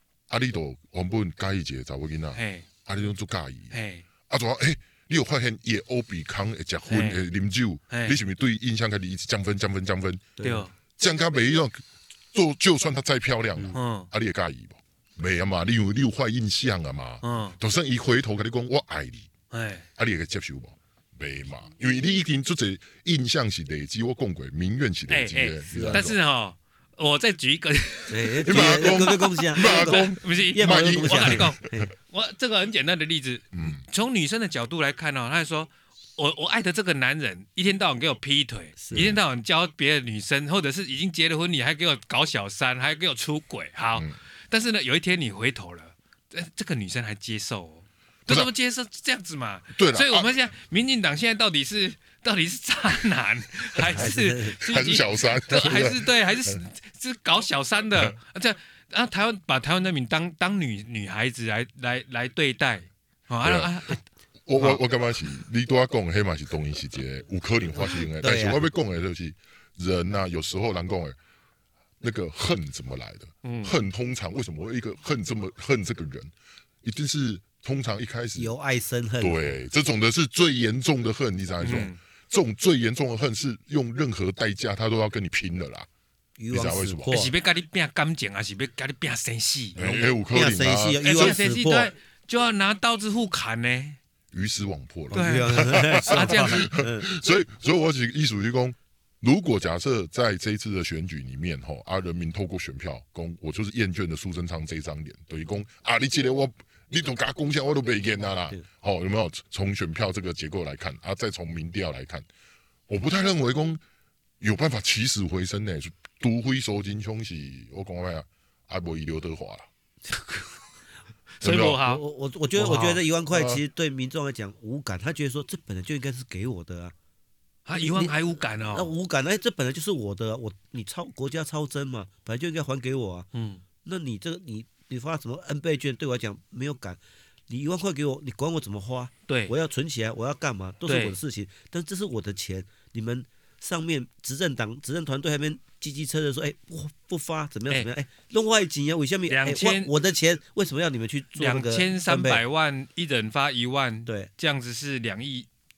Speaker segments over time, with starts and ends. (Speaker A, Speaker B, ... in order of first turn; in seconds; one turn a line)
Speaker A: 0.3-3.7
Speaker B: 2.3-2.6
Speaker B: 3.7-4.0
Speaker A: 4.3-10.3
Speaker B: 6.9-7.2
Speaker B: 7.9-8.2
Speaker C: 10.4-10.7
Speaker B: 10.4-10.7
Speaker A: 11.0-19.3
Speaker B: 13.7-14.1
Speaker B: 17.2-17.6
Speaker B: 19.5-19.8
Speaker A: 19.9-26.2
Speaker B: 25.1-64.0
Speaker C: 25.7-26.1
Speaker C: 28.1-31.9
Speaker A: 28.4-31.6
Speaker A: 33.5-33.8
Speaker C: 38.8-39.1
Speaker A: 38.9-39.2
Speaker A: 49.7-50.3
Speaker A: 53.9-56.5
Speaker C: 53.9-54.6
Speaker A: 63.4-63.9
Speaker A: 64.5-71.2
Speaker C: 68.2-68.6
Speaker A: 72.0-76.3
Speaker B: 73.4-73.8
Speaker A: 76.8-78.5
Speaker C: 78.4-79.4
Speaker A: 79.2-85.9
Speaker B: 81.6-82.0
Speaker C: 86.4-87.3
Speaker A: 86.5-87.2
Speaker B: 87.1-89.8
Speaker A: 89.8-91.3
Speaker C: 89.8-91.9
Speaker B: 91.0-94.0
Speaker A: 94.3-112.2
Speaker C: 95.1-97.1
Speaker B: 95.1-96.7
Speaker A: 112.9-113.8
Speaker A: 114.4-119.7
Speaker C: 120.1-120.5
Speaker B: 121.4-122.0
Speaker A: 121.4-121.8
Speaker C: 121.7-126.9
Speaker B: 122.5-123.0
Speaker A: 123.3-123.6
Speaker B: 127.7-128.9
Speaker C: 127.8-128.1
Speaker C: 128.7-133.3
Speaker B: 133.3-133.6
Speaker C: 133.8-152.4
Speaker B: 139.3-139.5
Speaker B: 140.8-141.2
Speaker B: 149.3-149.9
Speaker B: 151.3-155.5